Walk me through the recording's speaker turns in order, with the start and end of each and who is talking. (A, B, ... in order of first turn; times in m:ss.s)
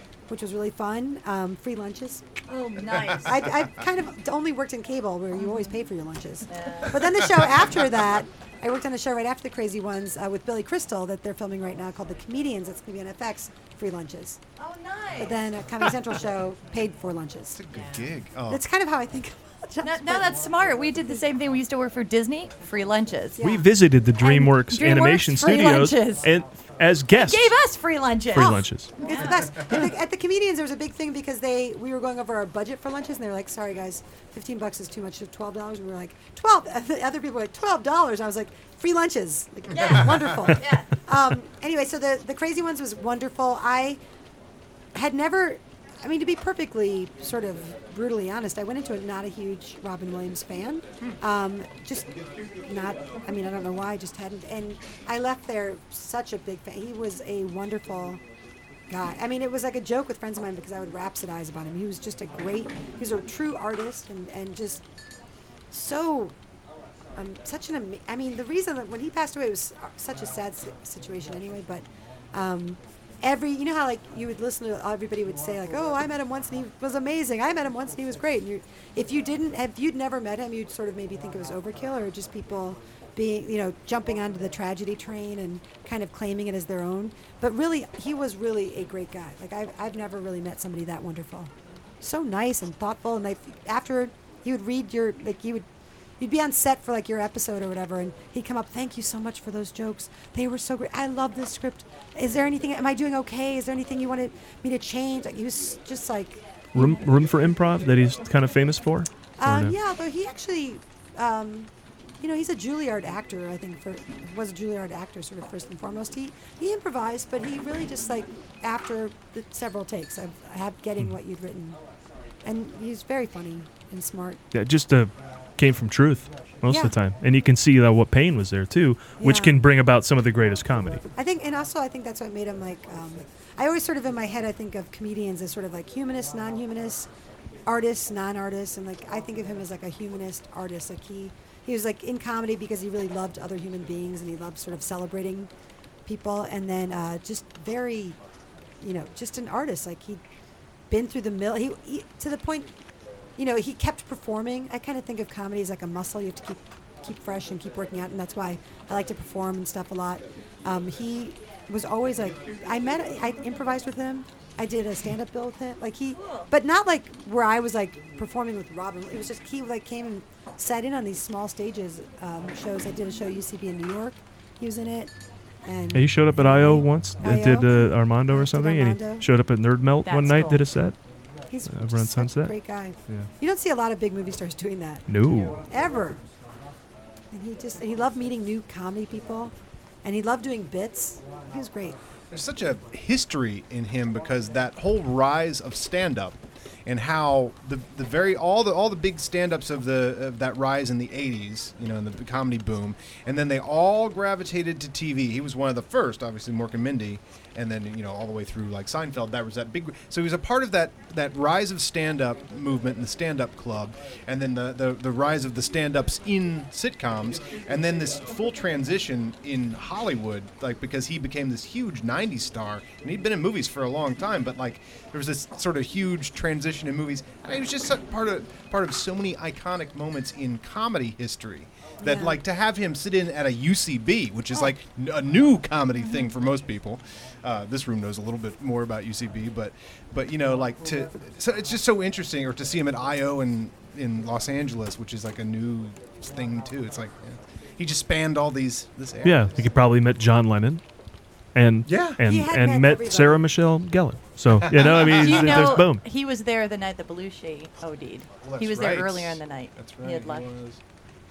0:00.3-0:02.2 A
0:02.5-0:03.4 B
0:03.2-0:14.4 A
0:05.4-0:05.8 B
0:06.5-0:07.0 B
0:07.4-0:07.8 C
0:14.6-0:15.4 B
0:15.2-0:17.6 A
0:17.5-0:18.6 C
0:18.5-0:20.4 A
0:19.8-0:23.4 B
0:23.4-0:23.7 A
0:23.4-0:27.5 D
0:24.2-0:26.3 B
0:27.1-0:29.4 B
0:28.3-0:28.9 D
0:29.0-0:44.0 A
0:39.7-0:40.9 B
0:44.9-0:52.1 A
0:52.7-0:58.2 A
0:58.9-1:04.8 A
1:05.7-1:06.4 A
1:07.2-1:35.7 A
1:36.2-1:47.2 A
1:46.8-1:49.8 D
1:49.4-2:01.8 A
2:02.4-2:04.4 A
2:04.5-2:11.0 D
2:06.6-2:07.0 A
2:09.2-2:09.6 A
2:11.1-2:17.1 A
2:17.7-2:25.5 A
2:26.1-2:28.2 A
2:28.8-2:30.2 A
2:30.9-2:32.7 A
2:33.4-2:55.1 A
2:46.2-2:46.5 B
2:55.6-2:59.3 A
2:55.9-3:01.0 D
3:00.0-3:00.6 B
3:01.5-3:05.1 A
3:01.7-3:02.6 D
3:05.1-3:05.6 D
3:05.6-3:06.2 A
3:07.3-3:09.5 A
3:10.0-3:12.0 A
3:12.3-4:09.7 C
3:52.0-3:52.4 A
4:09.2-4:10.8 D
4:11.6-4:16.0 D
4:11.8-4:12.2 C
4:12.2-4:13.4 A
4:14.6-4:15.8 C
4:14.8-4:20.4 B
4:18.4-4:20.8 C